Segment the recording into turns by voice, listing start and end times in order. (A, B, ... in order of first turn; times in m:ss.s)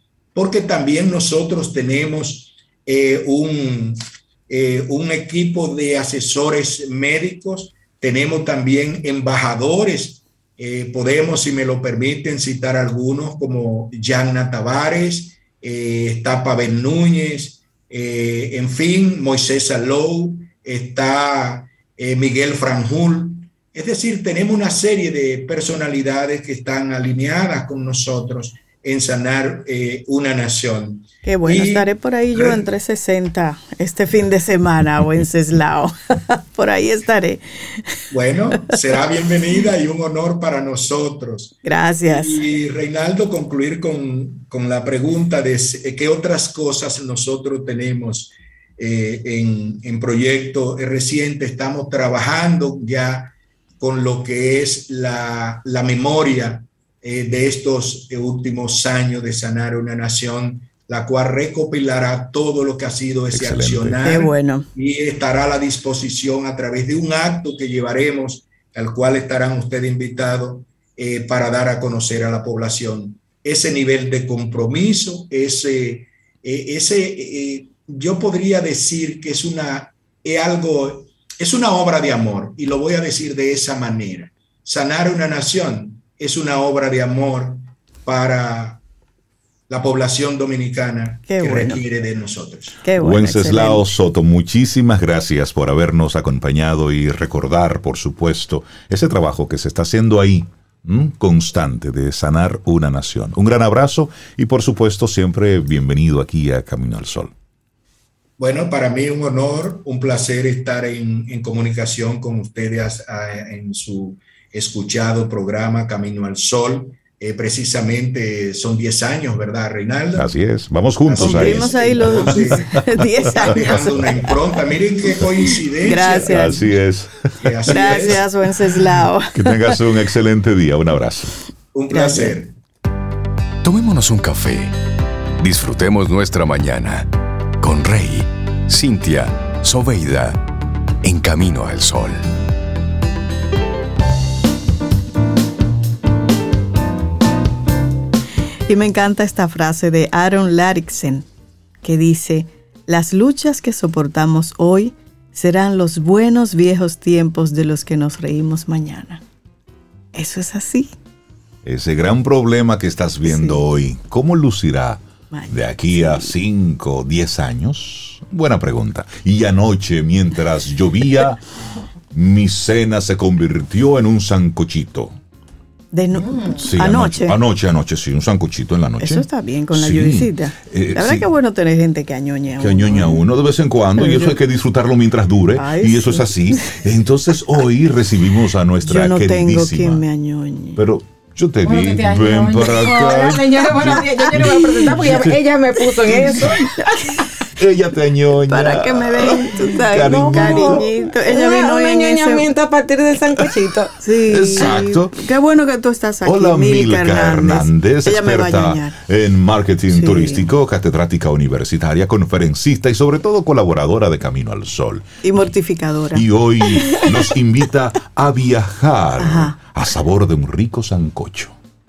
0:00.3-0:32.7 A
0:31.2-0:38.0 B
0:38.1-1:28.8 A
0:41.6-0:42.4 B
1:03.3-1:04.0 C
1:04.0-1:04.7 B
1:29.7-1:32.8 A
1:31.3-1:31.8 B
1:32.8-1:33.9 B
1:33.0-1:47.3 C
1:48.4-2:00.3 A
2:00.1-2:02.5 C
2:01.0-2:06.6 A
2:01.2-2:04.3 B
2:03.4-2:03.9 C
2:05.8-2:06.6 B
2:06.2-2:07.2 C
2:07.4-2:08.3 A
2:07.6-2:09.5 B
2:09.3-2:11.3 C
2:11.7-2:12.6 A
2:11.9-2:12.4 B
2:13.6-2:14.7 D
2:15.4-2:20.4 D
2:21.0-2:22.2 D
2:28.7-2:31.3 B
2:31.8-2:39.2 B
2:40.1-2:40.9 B
2:41.6-2:51.4 C
2:43.3-2:43.6 B
2:45.3-2:46.3 B
2:52.1-2:55.2 C
2:55.9-2:57.4 B
2:56.3-2:56.6 E
2:56.6-3:01.3 C
2:59.0-3:03.2 B
3:02.6-3:10.0 C
3:04.0-3:04.4 B
3:05.6-3:06.8 B
3:08.8-3:10.8 B
3:10.8-3:15.4 C
3:11.6-3:17.3 E
3:16.0-3:16.6 C
3:17.6-3:20.8 C
3:18.5-3:22.5 B
3:20.0-3:23.9 E
3:24.0-3:28.9 B
3:24.3-3:25.2 C
3:26.2-3:35.4 C
3:29.9-3:30.4 B
3:35.2-3:37.1 B
3:36.1-3:41.6 C
3:39.2-3:39.6 B